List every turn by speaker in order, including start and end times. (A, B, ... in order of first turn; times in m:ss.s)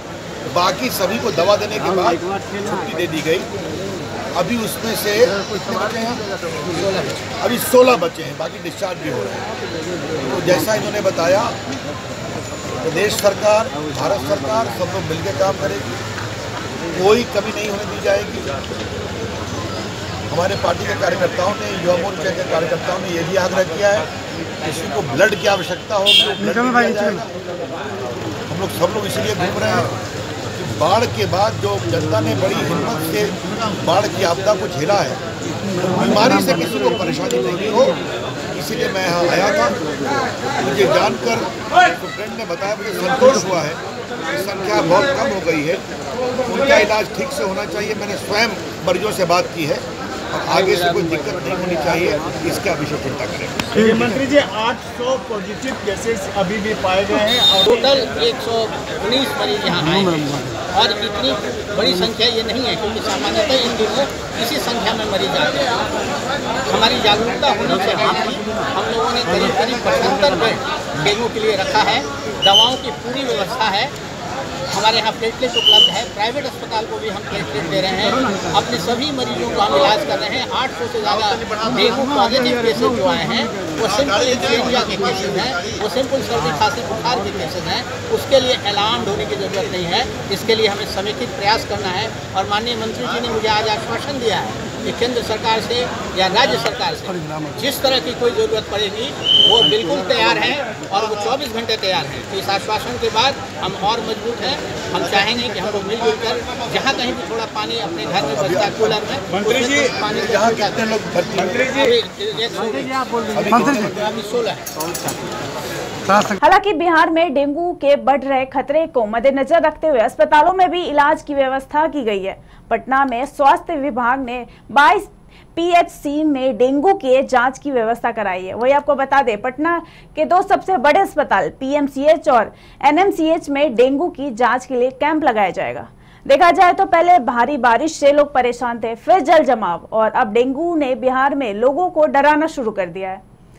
0:00.5-0:03.5 A
0:04.3-0:09.5 A
0:10.3-0:11.6 A
0:12.8-0:15.9 A
0:16.9-0:18.5 A
0:20.3-0:24.1 A
0:24.6-0:27.3 A
0:28.5-0:30.0 A
0:30.6-0:35.2 A
0:35.9-0:38.0 A
0:38.5-0:39.8 A
0:40.6-0:45.8 A
0:46.5-0:53.8 A
0:53.8-0:57.8 B
0:57.6-1:05.9 C
1:06.7-1:13.9 C
1:14.7-1:50.8 C
1:48.4-1:48.9 A
1:50.0-1:51.8 A
1:51.5-1:54.7 C
1:53.3-1:53.9 A
1:56.3-2:23.2 D